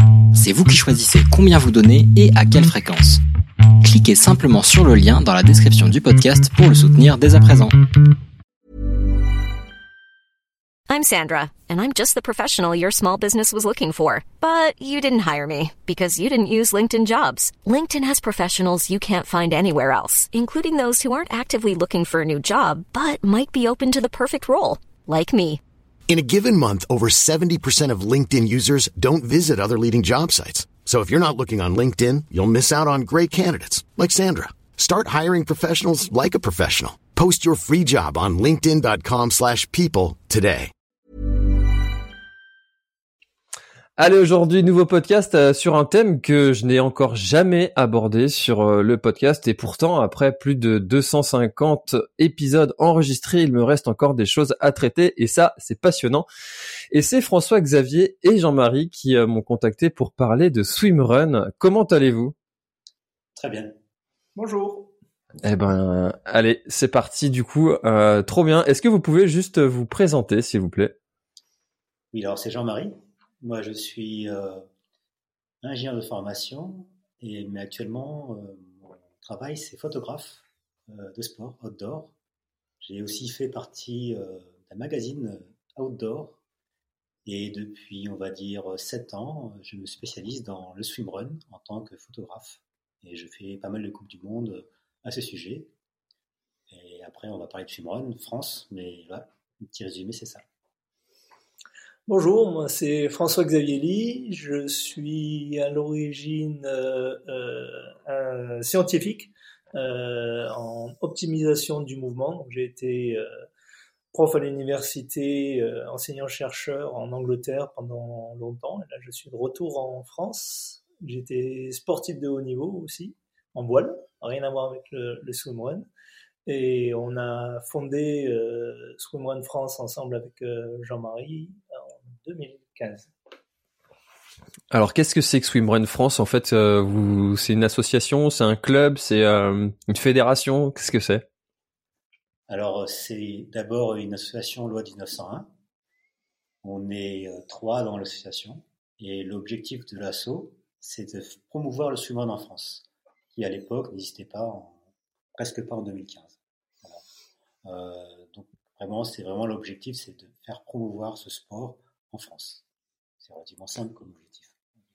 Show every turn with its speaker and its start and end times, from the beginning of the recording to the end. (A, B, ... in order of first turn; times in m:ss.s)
0:00.3-0:03.2 A
0:03.8-0:07.8 A
0:10.9-0:25.6 B
0:26.1-0:40.7 C
0:44.0-0:56.3 D
0:56.9-1:02.3 D
1:03.4-1:03.8 E
1:04.4-1:04.9 F
1:05.4-1:11.0 D
1:12.1-1:14.6 E
1:15.6-1:22.1 E
1:22.8-1:26.4 E
1:27.2-1:35.7 E
1:36.7-1:40.4 E
1:42.1-1:53.3 F
1:54.1-2:05.9 F
2:06.5-2:11.6 F
2:12.1-2:13.1 F
2:14.7-2:21.2 D
2:22.5-2:25.5 E
2:26.6-2:34.8 E
2:35.4-2:37.0 E
2:37.6-2:42.6 E
2:43.2-2:44.6 E